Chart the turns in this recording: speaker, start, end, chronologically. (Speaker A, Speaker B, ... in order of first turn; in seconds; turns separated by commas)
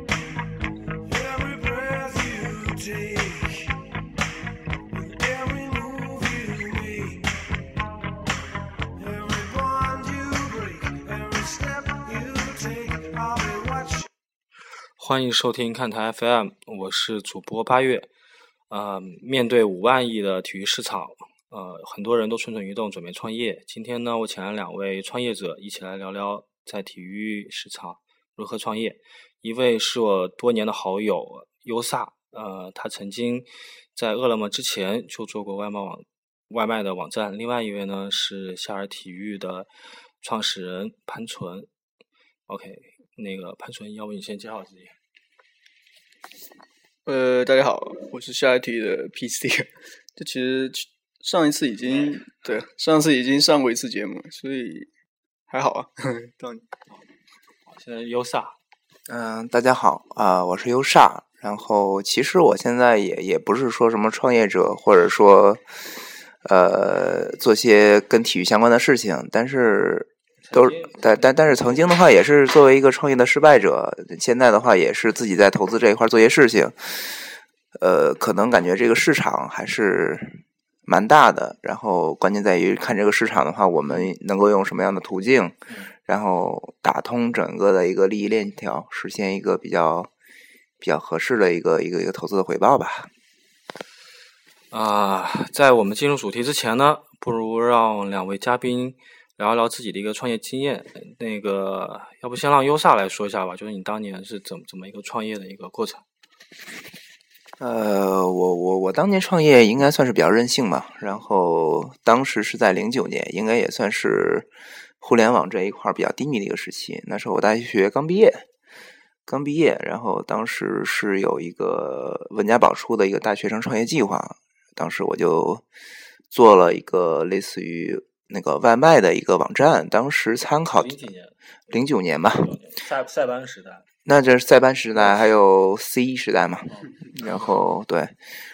Speaker A: 1.0-3.7, Speaker A: 4.9-7.3, Speaker A: 9.0-14.1, Speaker B: 15.0-18.1, Speaker B: 18.7-39.7, Speaker B: 40.2-41.7, Speaker B: 42.5-45.0, Speaker C: 47.1-54.9, Speaker B: 51.8-52.6, Speaker C: 55.5-56.7, Speaker B: 57.7-58.6, Speaker D: 59.1-65.7, Speaker D: 66.4-90.1, Speaker B: 70.5-71.9, Speaker D: 90.8-93.1, Speaker B: 94.7-106.0, Speaker D: 107.6-114.5, Speaker D: 115.0-118.5, Speaker D: 119.3-125.7, Speaker D: 126.3-131.0, Speaker B: 130.7-133.9, Speaker D: 131.7-132.6, Speaker D: 134.1-138.2, Speaker B: 134.9-135.4, Speaker B: 136.7-137.5